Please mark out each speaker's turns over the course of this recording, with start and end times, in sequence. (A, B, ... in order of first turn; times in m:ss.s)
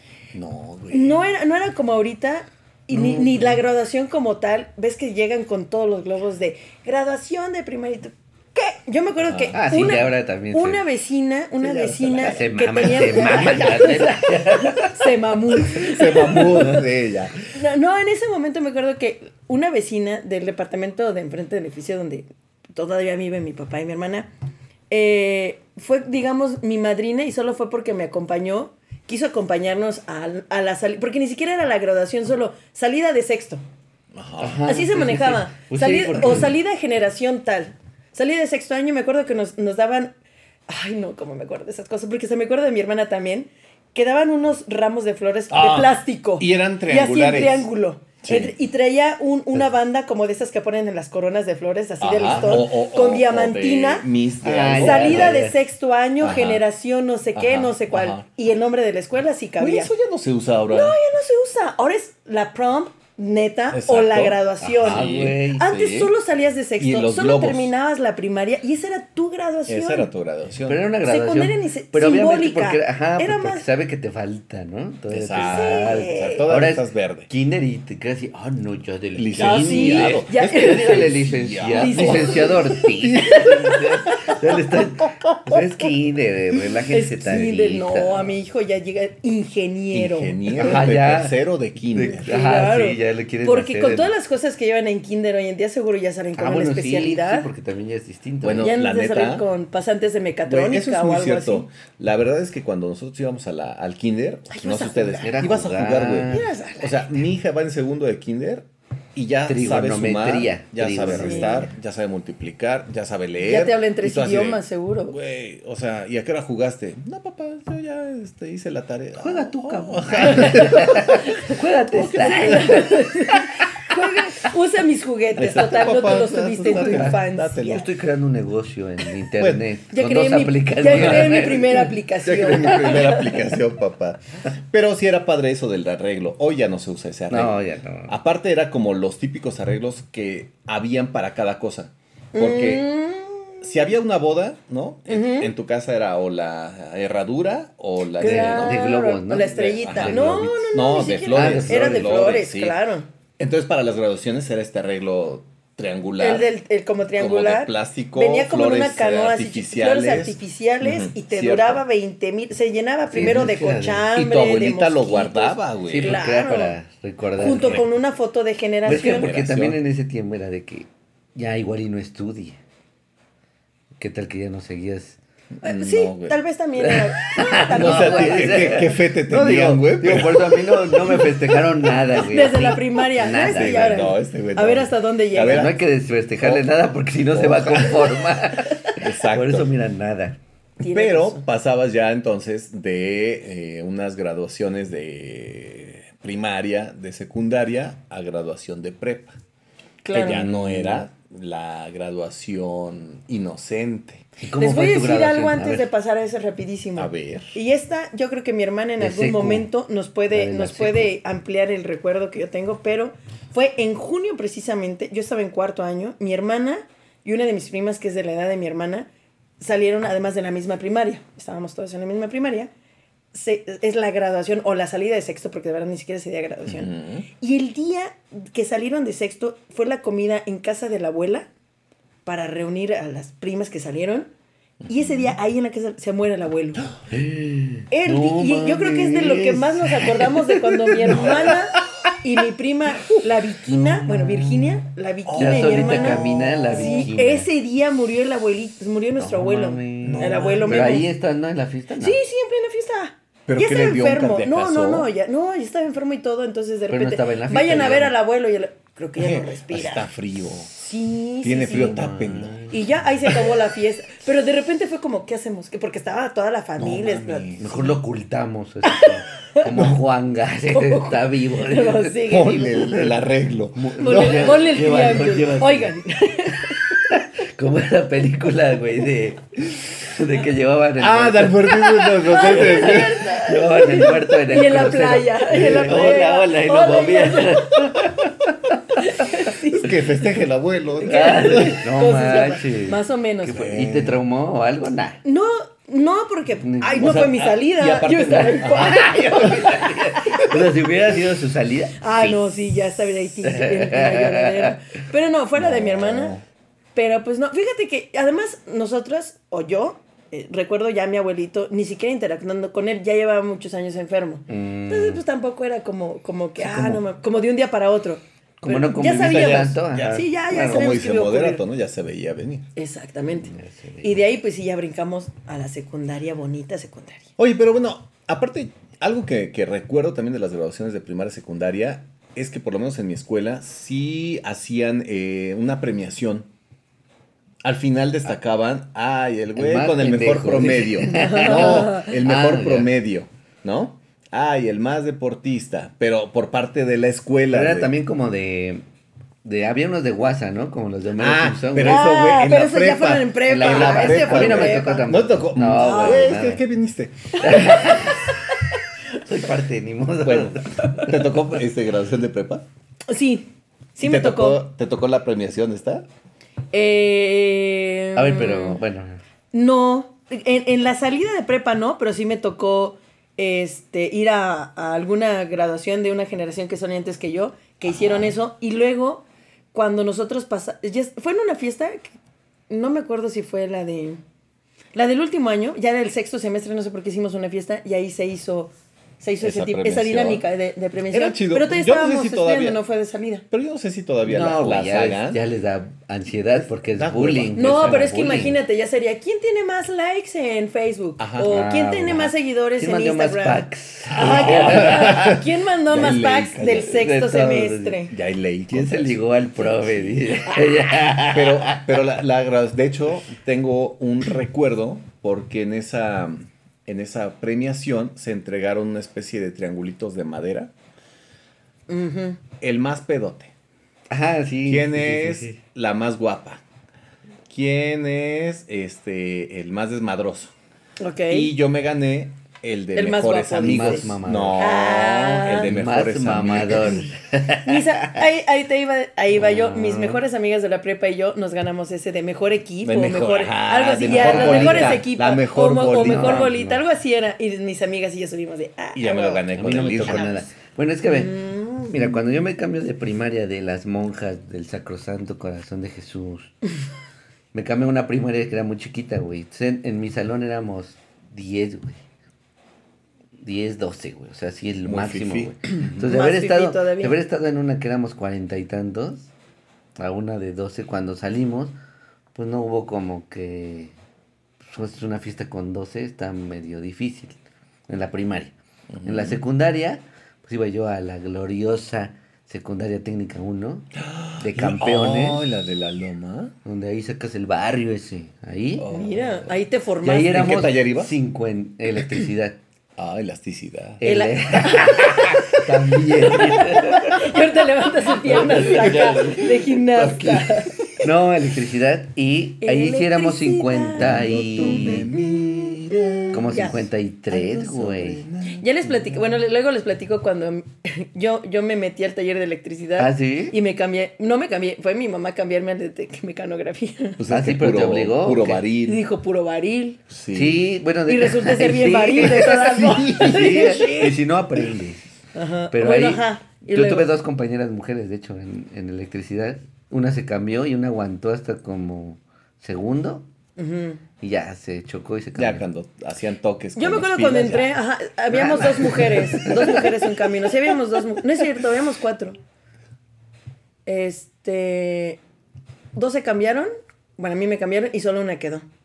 0:00.3-0:01.2 A
0:00.9-0:16.8 B
0:02.9-0:03.6 C
0:09.2-0:09.6 A
0:09.5-0:10.8 C
0:11.6-0:12.4 A
0:12.2-0:15.0 C
0:15.7-0:17.4 A
0:17.5-0:24.3 B
0:24.9-0:33.6 B
0:34.1-0:34.7 A
0:34.4-0:36.5 C
0:34.6-0:40.1 B
0:40.7-0:54.0 B
0:45.5-0:47.7 A
0:48.2-0:48.5 A
0:52.0-0:55.4 A
0:54.4-0:55.6 C
0:54.7-0:59.9 B
0:56.2-0:56.6 A
0:57.3-0:58.2 A
0:59.6-1:01.0 A
1:00.7-1:10.1 B
1:03.7-1:06.1 A
1:04.8-1:05.6 C
1:06.8-1:07.7 A
1:09.7-1:10.9 A
1:10.6-1:28.4 C
1:11.0-1:13.6 B
1:15.1-1:17.3 A
1:15.4-1:16.4 B
1:19.2-1:23.5 A
1:19.4-1:23.8 B
1:26.9-1:30.8 B
1:29.9-1:32.3 A
1:30.6-1:34.1 C
1:32.2-1:37.5 B
1:36.4-1:38.7 C
1:38.4-1:39.4 A
1:38.6-1:41.7 B
1:40.4-2:01.1 A
1:44.5-1:45.4 B
1:45.2-1:46.4 C
1:46.3-1:47.2 B
1:49.5-1:51.7 C
1:51.0-1:51.6 B
1:53.4-1:55.2 B
1:59.2-2:03.4 C
2:00.4-2:07.8 B
2:05.4-2:07.8 A
2:06.6-2:11.9 C
2:09.4-2:09.6 A
2:09.9-2:13.4 B
2:10.9-2:11.4 A
2:12.2-2:22.9 A
2:17.3-2:18.1 C
2:22.3-2:23.6 B
2:23.6-2:28.8 A
2:25.1-2:25.5 B
2:28.2-2:33.1 B
2:28.2-2:30.8 C
2:29.4-2:32.8 A
2:31.3-2:32.3 C
2:33.4-2:36.5 A
2:36.2-2:46.8 B
2:37.2-2:41.8 A
2:43.1-2:44.1 C
2:43.2-2:43.5 A
2:44.1-2:46.2 A
2:45.9-2:47.8 C
2:47.4-2:49.3 B
2:48.8-2:52.6 C
2:48.9-2:49.8 A
2:54.0-2:55.2 C
2:55.6-2:56.4 A
2:55.6-2:58.8 B
2:56.8-3:04.0 C
2:57.7-3:00.7 A
3:02.1-3:05.7 B
3:03.3-3:05.8 A
3:05.4-3:10.4 C
3:06.4-3:06.6 A
3:07.3-3:08.2 A
3:09.0-3:09.7 A
3:10.8-3:11.4 B
3:10.8-3:19.4 A
3:20.0-3:20.5 B
3:20.1-3:24.2 A
3:20.3-3:21.0 C
3:24.4-3:25.9 C
3:24.6-3:39.1 B
3:27.0-3:27.6 A
3:29.0-3:29.7 C
3:30.3-3:31.1 C
3:39.6-3:42.7 B
3:43.3-3:51.5 B
3:46.7-3:47.2 A
3:52.2-3:54.3 B
3:54.9-3:55.2 A
3:54.9-3:56.9 B
3:57.1-4:00.4 C
3:57.9-4:11.1 B
4:01.0-4:02.1 A
4:04.1-4:04.4 C
4:05.2-4:07.1 A
4:05.4-4:07.5 C
4:09.2-4:12.2 C
4:10.0-4:11.0 A
4:12.0-4:20.1 B
4:13.5-4:15.1 A
4:16.9-4:18.2 C
4:19.2-4:20.7 A
4:20.7-4:22.1 B
4:21.4-4:22.6 A
4:21.7-4:22.8 C
4:22.7-4:27.6 B
4:26.8-4:28.0 A
4:27.6-4:32.1 C
4:28.8-4:29.8 B
4:30.7-4:33.0 B
4:32.2-4:34.5 A
4:33.7-4:35.9 C
4:34.0-4:36.8 B
4:37.1-4:49.3 C
4:41.0-4:43.3 A
4:42.2-4:48.0 B
4:49.0-4:50.4 B
4:49.7-4:51.8 A
4:51.0-4:53.7 B
4:51.0-4:55.2 C
4:53.5-4:54.2 A
4:55.2-4:59.5 B
4:56.6-4:57.4 C
4:57.0-5:00.4 A
4:58.1-5:02.4 C
5:02.0-5:06.4 B
5:03.4-5:04.8 C
5:05.6-5:06.4 A
5:06.9-5:21.6 B
5:14.5-5:15.2 C
5:16.6-5:17.0 C
5:18.6-5:20.8 C
5:19.1-5:22.7 A
5:22.8-5:27.3 B
5:23.4-5:24.2 C
5:27.4-5:36.5 A
5:37.6-5:47.9 A
5:39.6-5:42.9 C
5:41.1-5:42.1 B
5:47.5-5:48.8 C
5:49.4-5:52.1 C
5:51.2-5:58.0 A
5:51.8-5:55.1 B
5:53.4-5:56.6 C
5:55.7-5:56.4 B
5:57.4-5:58.3 C
5:59.1-6:01.1 C
6:00.2-6:02.6 A
6:03.1-6:04.6 B
6:04.0-6:06.0 A
6:06.7-6:08.8 B
6:08.1-6:09.2 C
6:09.5-6:22.1 B
6:17.8-6:18.3 A
6:22.7-6:24.2 B
6:24.9-6:33.4 B
6:29.4-6:30.4 A
6:31.1-6:32.8 A
6:33.5-6:35.4 A
6:34.2-6:38.6 C
6:36.9-6:38.3 A
6:37.5-6:48.1 B
6:41.2-6:41.6 A
6:41.4-6:45.4 C
6:44.2-6:47.0 A
6:46.8-6:48.0 C
6:48.1-6:50.4 A
6:48.7-6:52.0 C
6:51.3-7:00.7 A
7:01.9-7:02.4 B
7:02.6-7:03.5 A
7:04.1-7:05.6 C
7:04.6-7:06.6 A
7:07.5-7:10.5 A
7:11.0-7:11.5 B
7:11.3-7:17.1 A
7:12.9-7:15.7 B
7:13.6-7:14.6 C
7:15.6-7:18.2 C
7:17.6-7:29.4 B
7:19.3-7:20.2 C
7:22.8-7:26.5 A
7:24.0-7:25.0 C
7:26.0-7:26.8 C
7:28.9-7:30.4 A
7:29.5-7:31.4 C
7:31.1-7:31.9 B
7:31.9-7:36.5 C
7:37.5-7:42.0 C
7:43.4-7:49.3 C
7:44.8-7:45.7 A
7:46.0-7:47.2 B
7:50.0-7:51.7 C
7:52.3-7:53.9 C
7:54.6-7:57.4 C
7:57.9-8:05.4 C
7:58.9-7:59.4 A
8:03.9-8:06.5 A
8:06.6-8:08.9 C
8:08.8-8:09.5 A
8:08.9-8:10.4 B
8:10.0-8:12.6 C
8:10.2-8:11.1 A
8:13.0-8:14.0 A
8:14.0-8:17.3 C
8:14.0-8:20.9 B
8:18.3-8:19.4 C
8:18.3-8:19.6 A
8:20.0-8:20.4 C
8:21.0-8:25.1 C
8:22.6-8:25.7 B
8:24.0-8:28.7 A
8:26.3-8:28.2 C
8:26.5-8:26.8 B
8:28.5-8:37.2 B
8:33.0-8:33.6 C
8:37.2-8:39.0 A
8:37.3-8:38.6 C
8:38.8-8:40.0 B
8:40.1-8:40.6 A
8:40.3-8:45.0 C
8:41.1-8:44.2 B
8:42.8-8:43.5 A
8:45.3-8:47.1 B
8:45.7-8:53.2 C
8:53.6-8:54.0 B
8:54.2-8:55.6 C
8:55.4-8:57.7 A
8:56.8-9:02.4 B
8:58.3-8:59.6 A
9:03.8-9:05.2 B
9:05.9-9:08.6 B